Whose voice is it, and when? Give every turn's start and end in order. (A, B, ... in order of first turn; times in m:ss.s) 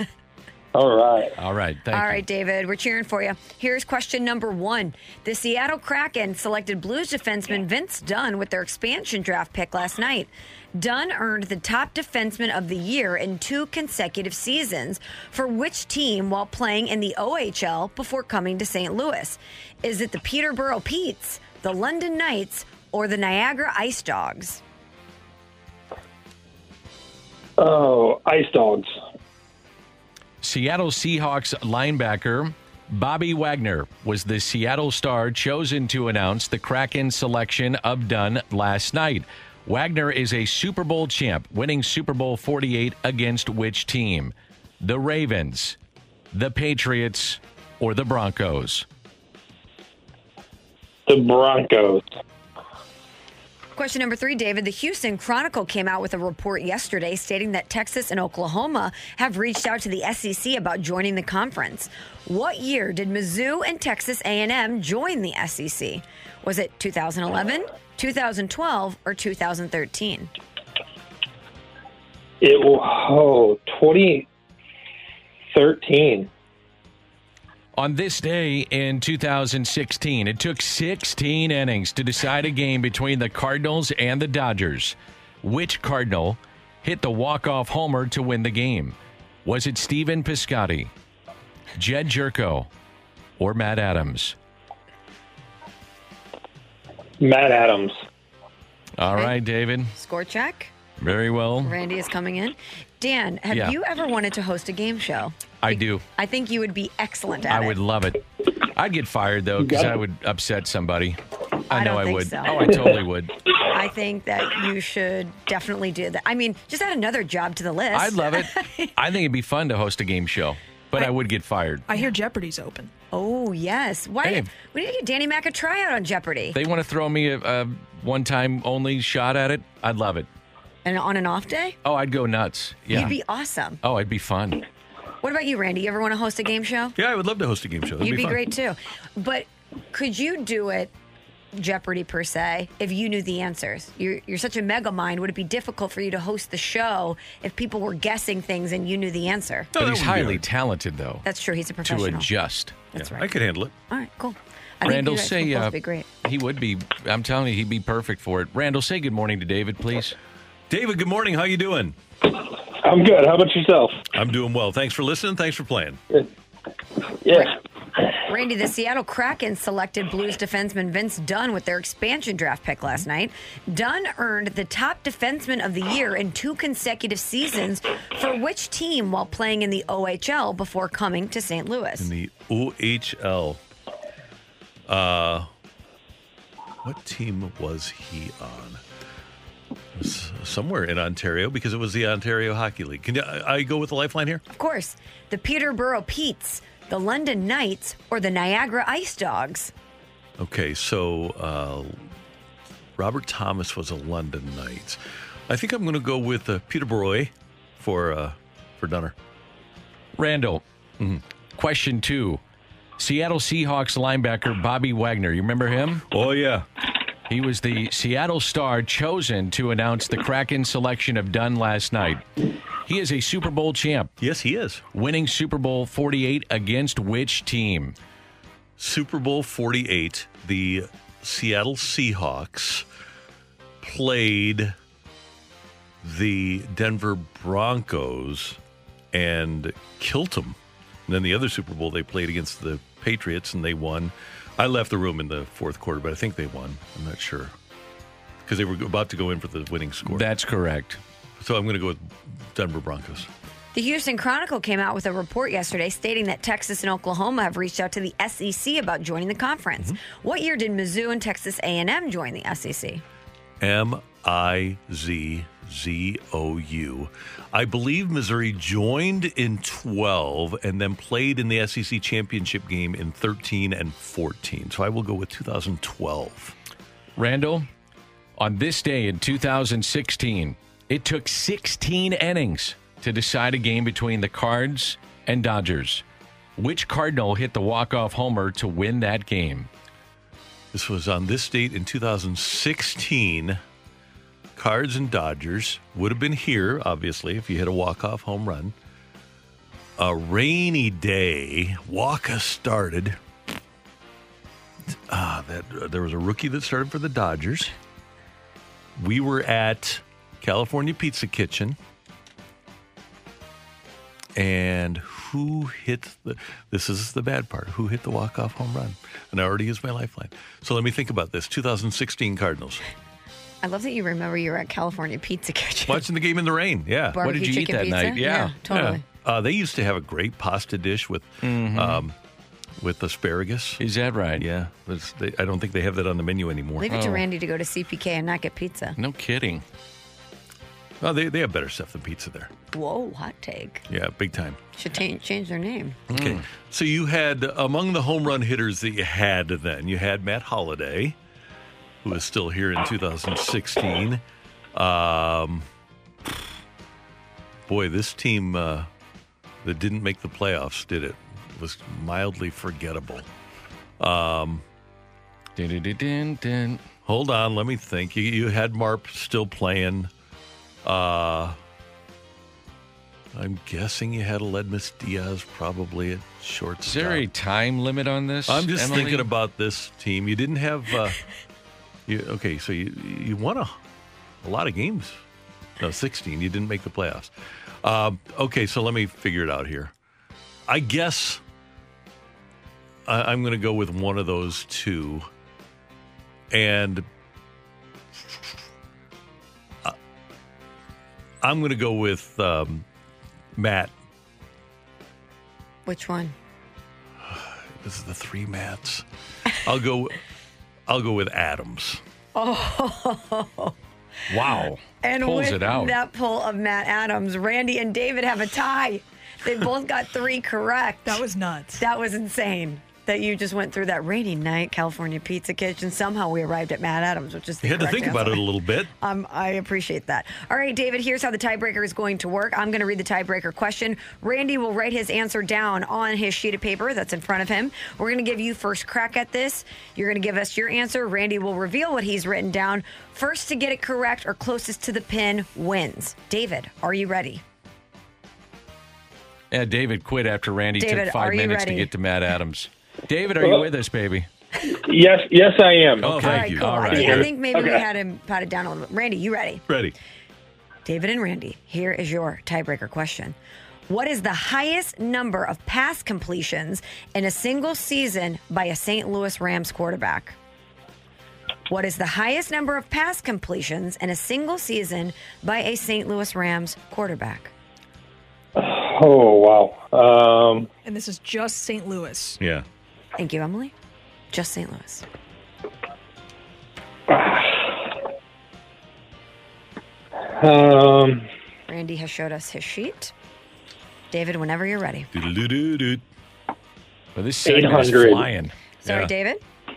0:00.7-0:01.3 A
0:01.4-0:02.2 B
0:01.9-0:24.6 C
0:27.6-0:28.9 A
0:30.4-0:45.8 B
0:46.3-0:48.8 B
0:51.1-0:52.0 A
0:53.8-1:10.3 C
1:12.4-1:14.3 A
1:15.5-1:16.3 A
1:17.8-1:30.9 B
1:31.8-1:32.7 B
1:33.4-1:34.3 B
1:37.2-1:37.9 A
1:39.0-1:39.9 B
1:39.9-1:40.7 C
1:41.0-1:41.7 B
1:41.6-1:47.8 C
1:45.6-1:46.0 B
1:47.5-1:48.2 B
1:48.7-1:51.2 B
1:49.6-1:50.0 A
1:51.7-1:53.3 B
1:51.7-1:52.8 C
1:53.7-1:58.9 C
1:57.9-2:02.0 B
2:01.9-2:02.9 D
2:03.1-2:06.6 C
2:06.5-2:10.3 B
2:10.8-2:11.8 C
2:11.8-2:13.1 B
2:12.9-2:13.8 C
2:13.8-2:14.6 B
2:15.2-2:16.9 C
2:17.0-2:18.4 E
2:18.0-2:20.9 C
2:21.5-2:29.7 C
2:29.7-2:30.4 E
2:29.8-2:31.2 B
2:31.2-2:32.3 C
2:31.8-2:33.1 B
2:33.0-2:33.2 C
2:33.1-2:33.7 E
2:33.9-2:36.1 C
2:34.8-2:40.1 B
2:40.7-2:42.0 E
2:42.8-2:44.0 A
2:44.1-2:46.0 E
2:47.2-2:47.5 A
2:48.2-3:02.1 C
3:02.0-3:03.6 E
3:04.9-3:05.5 E
3:06.8-3:08.8 E
3:09.9-3:14.4 E
3:14.5-3:19.7 C
3:20.4-3:22.0 E
3:23.0-3:29.1 E
3:30.2-3:30.6 B
3:31.6-3:32.4 B
3:33.0-3:36.0 B
3:36.1-3:36.6 E
3:37.3-3:42.2 B
3:42.8-3:44.1 B
3:44.2-3:44.8 E
3:44.9-3:48.0 B
3:48.8-3:52.8 E
3:53.8-3:54.8 E
3:56.0-3:58.6 E
3:59.1-4:07.5 E
4:08.4-4:10.3 E
4:10.0-4:11.0 B
4:11.4-4:13.3 E
4:13.7-4:23.0 C
4:23.6-4:36.5 E
4:37.2-4:37.7 B
4:38.4-4:46.0 B
4:46.6-4:49.7 B
4:50.7-4:53.6 E
4:54.6-4:58.7 E
5:00.0-5:03.2 E
5:04.9-5:07.7 E
5:09.0-5:11.8 E
5:14.4-5:22.8 E
5:23.6-5:26.0 C
5:25.9-5:27.2 E
5:27.1-5:29.0 C
5:27.2-5:28.5 B
5:28.7-5:32.1 E
5:31.4-5:32.0 B
5:32.8-5:33.8 E
5:33.8-5:34.4 B
5:34.4-5:36.9 E
5:36.8-5:39.0 C
5:36.9-5:37.2 B
5:39.0-5:39.6 B
5:41.0-5:42.5 E
5:42.7-5:43.8 C
5:43.9-5:44.6 E
5:44.8-5:46.0 C
5:46.1-5:51.2 E
5:46.1-5:46.4 B
5:52.0-5:55.6 E
5:57.7-5:58.9 E
5:59.6-6:03.2 E
6:04.0-6:04.6 E
6:05.6-6:06.8 B
6:07.0-6:10.1 E
6:10.8-6:11.6 E
6:13.3-6:17.2 E
6:16.8-6:19.3 B
6:18.5-6:21.2 E
6:22.1-6:23.8 E
6:24.4-6:25.2 E
6:25.8-6:27.3 E
6:27.8-6:29.9 E
6:30.7-6:31.4 E
6:33.0-6:35.3 E
6:36.5-6:37.0 E
6:41.4-6:42.8 E
6:43.6-6:43.9 E
6:45.8-6:46.3 C
6:47.2-6:49.0 E
6:49.6-6:50.2 E
6:50.9-6:52.0 E
6:52.3-6:53.7 C
6:54.3-6:55.9 B
6:55.0-7:01.2 C
7:01.0-7:01.8 D
7:01.7-7:08.4 C
7:07.6-7:08.9 E
7:09.0-7:27.4 C
7:29.5-7:34.3 B
7:30.8-7:31.9 C
7:33.4-7:33.7 A
7:34.7-7:36.2 A
7:36.0-7:37.3 E
7:36.0-7:36.5 B
7:36.2-7:39.6 C
7:36.7-7:37.8 A
7:39.7-7:39.9 E
7:40.8-7:43.4 C
7:43.9-7:50.4 C
7:51.7-7:57.5 C
7:58.6-8:00.7 A
8:00.8-8:02.4 D
8:03.2-8:03.7 C
8:04.3-8:05.0 C
8:07.1-8:07.7 A
8:10.4-8:11.3 A
8:11.7-8:13.1 C
8:14.1-8:15.1 C
8:15.1-8:16.0 E
8:17.1-8:18.5 B
8:17.4-8:18.3 A
8:18.8-8:19.4 C
8:18.8-8:19.1 E